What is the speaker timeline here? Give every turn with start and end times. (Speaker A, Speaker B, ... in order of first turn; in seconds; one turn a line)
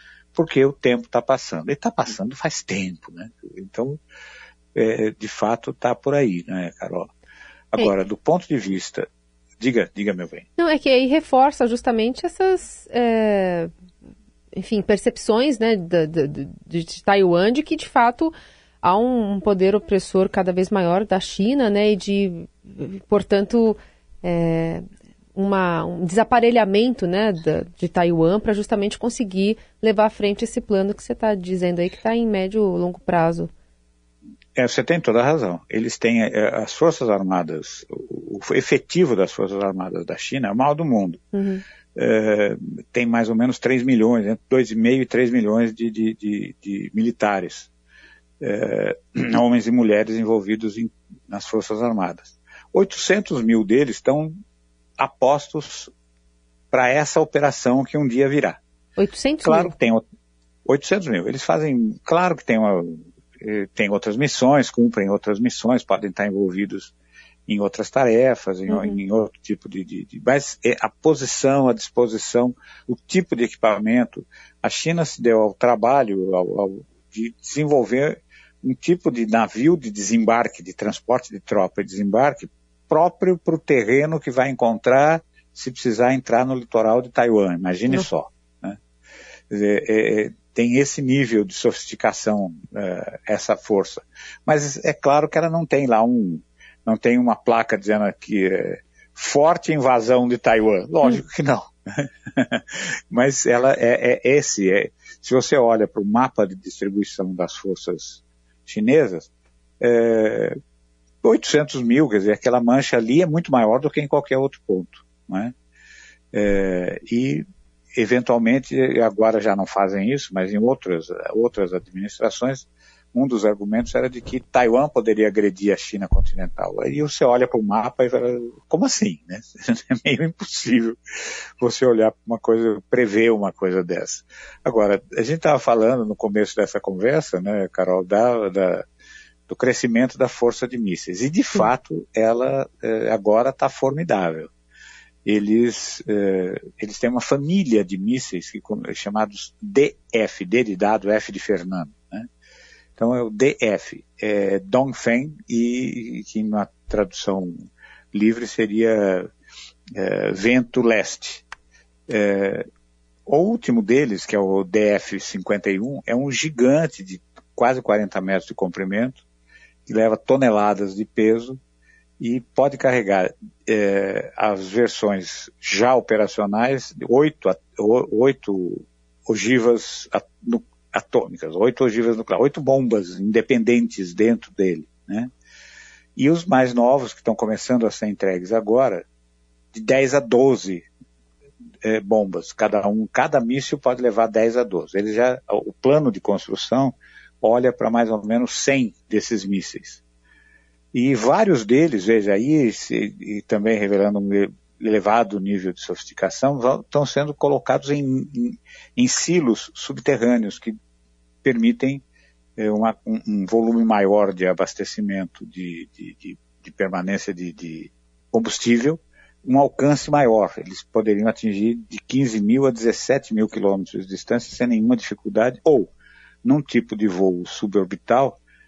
Speaker A: 0.3-4.0
Speaker A: 4.7-7.1
Speaker A: 7.7-9.1
Speaker A: 9.6-10.5
Speaker B: 10.6-13.7
Speaker B: 14.5-33.5
Speaker A: 34.5-41.2
Speaker B: 41.3-41.6
Speaker A: 41.9-47.7
Speaker A: 48.4-54.4
Speaker A: 55.0-55.9
Speaker A: 56.7-58.6
Speaker B: 59.0-59.7
Speaker A: 59.4-60.0
Speaker A: 60.6-66.9
Speaker A: 67.5-88.8
Speaker B: 68.7-69.0
Speaker A: 89.5-109.3
Speaker A: 109.8-110.6
Speaker A: 111.2-115.5
Speaker A: 116.3-117.4
Speaker A: 118.0-131.0
Speaker A: 131.6-138.8
Speaker A: 139.5-144.5
Speaker A: 145.2-152.3
Speaker A: 153.0-159.3
Speaker A: 159.9-161.4
Speaker A: 162.1-162.7
Speaker A: 163.3-169.2
Speaker A: 169.9-171.6
Speaker A: 172.2-185.3
Speaker A: 186.2-189.0
Speaker A: 189.7-190.9
Speaker A: 191.8-200.0
Speaker A: 200.9-210.7
Speaker A: 211.4-212.0
Speaker A: 212.6-225.9
Speaker A: 226.4-228.4